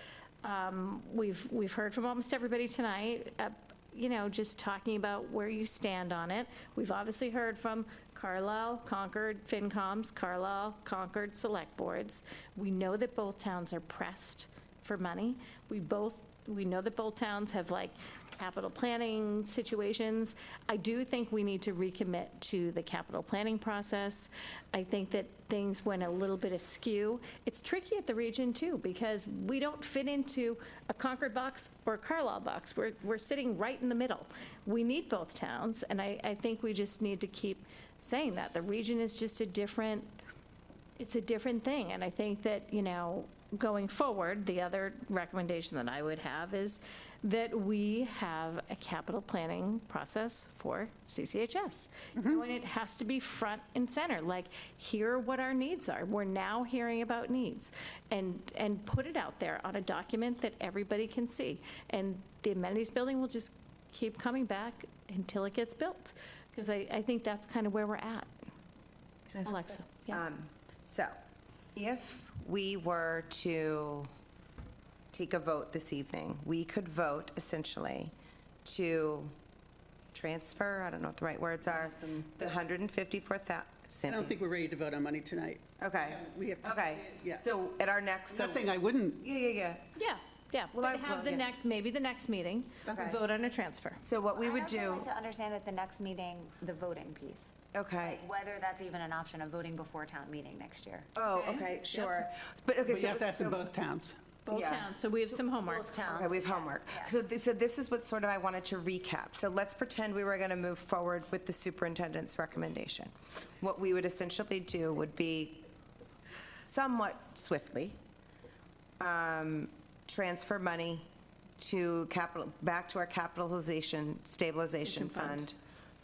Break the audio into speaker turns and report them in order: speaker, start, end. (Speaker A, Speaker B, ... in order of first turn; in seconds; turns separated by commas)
Speaker A: 0.4-40.1, Speaker A: 41.0-68.3, Speaker B: 69.3-71.1, Speaker A: 69.4-70.2, Speaker B: 71.8-74.1, Speaker B: 75.1-78.1, Speaker B: 78.6-79.3, Speaker B: 80.1-84.3, Speaker C: 84.0-87.4, Speaker B: 85.8-88.7, Speaker C: 88.3-89.2, Speaker B: 89.2-89.9, Speaker A: 90.0-94.0, Speaker B: 90.7-91.5, Speaker B: 92.9-93.2, Speaker B: 94.0-95.1, Speaker D: 94.3-101.1, Speaker B: 97.7-98.2, Speaker B: 101.1-103.6, Speaker A: 101.3-102.1, Speaker C: 102.9-104.2, Speaker A: 104.5-105.9, Speaker B: 104.5-104.9, Speaker D: 105.6-107.2, Speaker B: 106.1-115.7, Speaker B: 116.7-118.0, Speaker B: 119.0-121.0, Speaker B: 121.6-125.5, Speaker A: 124.8-125.5